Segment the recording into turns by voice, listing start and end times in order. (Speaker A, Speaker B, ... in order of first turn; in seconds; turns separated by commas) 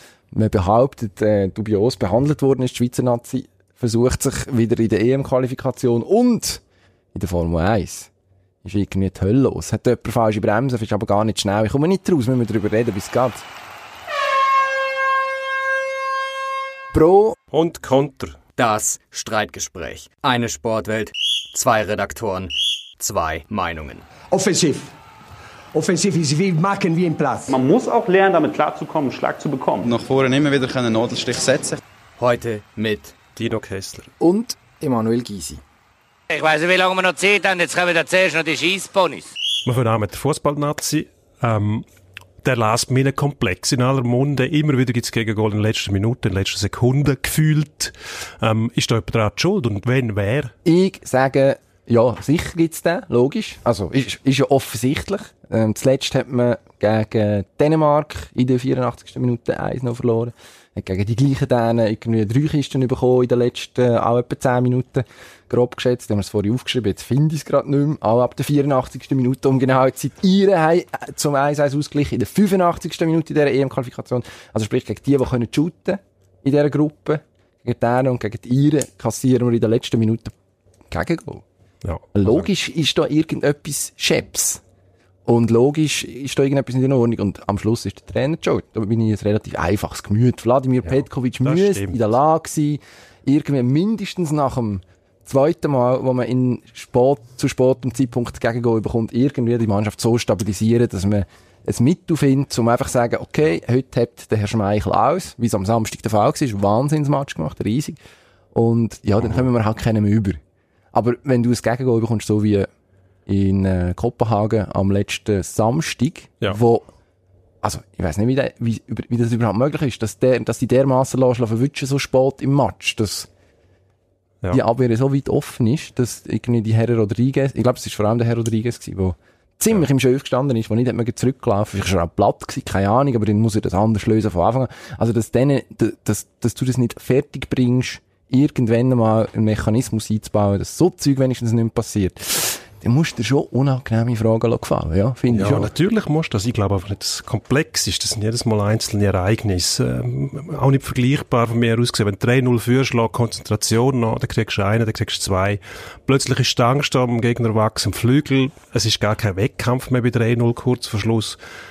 Speaker A: 0.3-6.6, Speaker A: 7.1-8.1, Speaker A: 8.6-13.4, Speaker A: 16.9-17.4, Speaker B: 17.5-18.4, Speaker C: 18.6-24.1, Speaker D: 24.3-24.9, Speaker D: 25.7-27.6, Speaker E: 27.5-29.9, Speaker F: 29.8-31.8, Speaker C: 32.2-33.1, Speaker B: 33.4-34.1, Speaker A: 34.2-35.6, Speaker G: 36.3-39.3, Speaker B: 39.6-41.9, Speaker B: 42.4-50.5, Speaker A: 50.6-80.3, Speaker A: 80.9-81.4, Speaker B: 81.8-82.5, Speaker A: 82.1-84.6, Speaker A: 85.2-108.0, Speaker B: 90.8-92.1, Speaker A: 108.5-110.4, Speaker A: 110.9-112.7, Speaker A: 113.3-116.8, Speaker A: 117.6-123.3, Speaker A: 124.5-145.7, Speaker B: 145.3-161.4